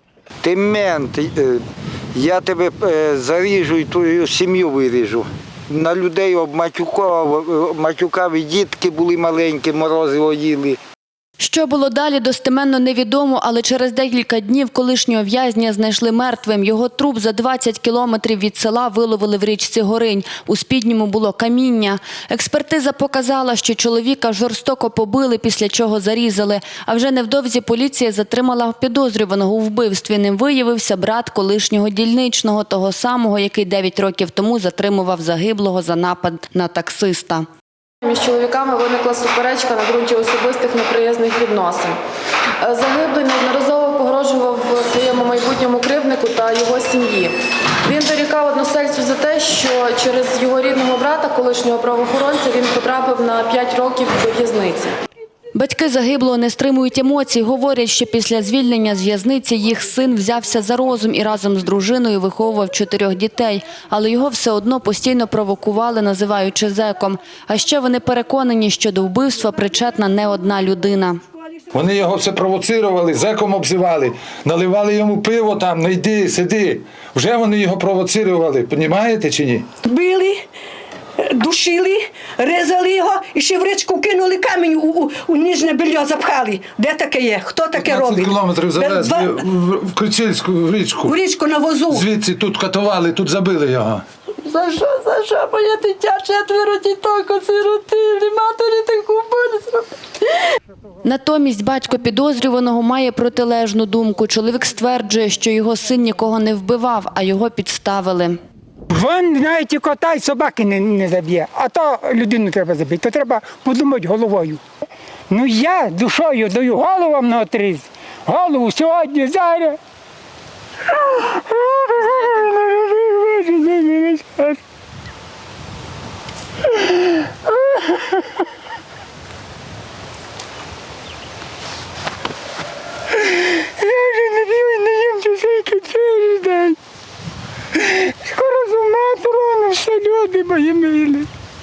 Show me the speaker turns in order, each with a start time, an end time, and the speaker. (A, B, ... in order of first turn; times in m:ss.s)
0:00.4-0:01.6 A
0:02.1-0:10.8 A
0:11.4-0:37.4 B
0:38.0-0:42.0 C
0:42.6-0:55.0 C
0:55.5-1:11.2 B
1:11.7-1:19.7 D
1:19.9-1:20.4 E
1:21.2-1:29.4 E
1:27.7-1:31.2 D
1:31.0-1:32.0 E
1:31.9-1:34.0 D
1:34.4-1:39.8 E
1:41.0-1:48.4 B
1:48.9-1:54.6 F
1:55.3-1:59.8 F
2:01.0-2:04.6 F
2:07.0-2:08.2 F
2:13.2-2:16.8 F
2:17.8-2:21.3 F